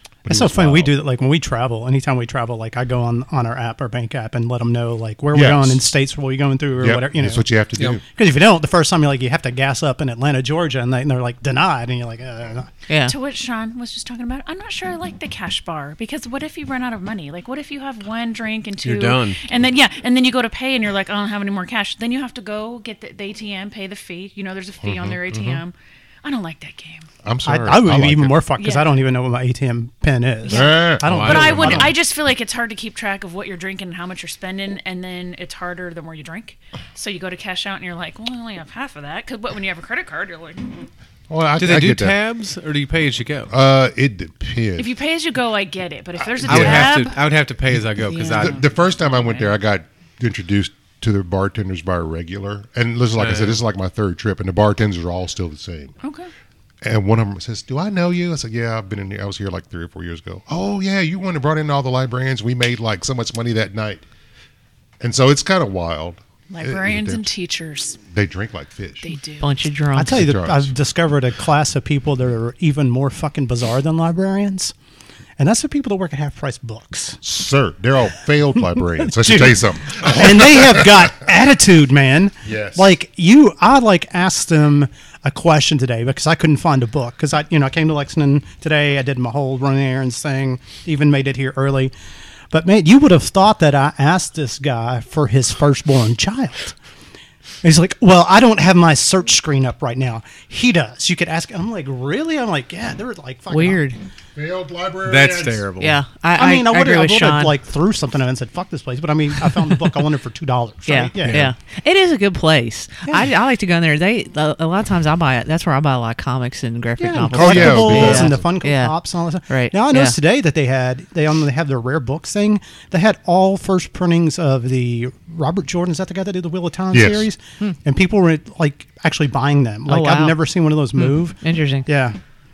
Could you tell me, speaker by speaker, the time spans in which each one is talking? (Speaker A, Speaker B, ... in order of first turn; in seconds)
Speaker A: 0.2-0.9, 5.3-5.8, 6.8-8.0, 24.8-25.6, 27.2-28.4, 30.5-31.9, 41.3-42.2, 43.5-44.9, 46.4-46.9, 48.4-55.9, 56.8-64.0, 65.0-67.2, 68.1-69.1, 70.0-70.7, 77.2-81.1, 82.4-82.9, 104.3-105.6, 117.3-118.5, 126.9-127.3
Speaker B: 0.2-7.4, 8.0-12.7, 27.4-31.9, 69.9-74.7, 75.4-77.2, 79.1-91.9, 92.5-96.7, 97.6-103.8, 106.3-111.4, 117.0-132.2
Speaker C: 12.9-13.1, 69.4-70.2, 103.5-104.0, 105.8-107.5, 110.8-120.2, 129.9-130.4, 130.9-131.9
Speaker D: 13.0-27.1, 28.6-29.0, 30.5-40.9, 44.8-47.2, 48.1-49.5, 56.0-56.3, 66.5-68.0, 69.0-69.5
Speaker E: 18.8-19.4, 31.0-31.8, 41.6-43.5, 46.4-48.6, 53.2-53.6, 105.0-106.0, 111.2-111.5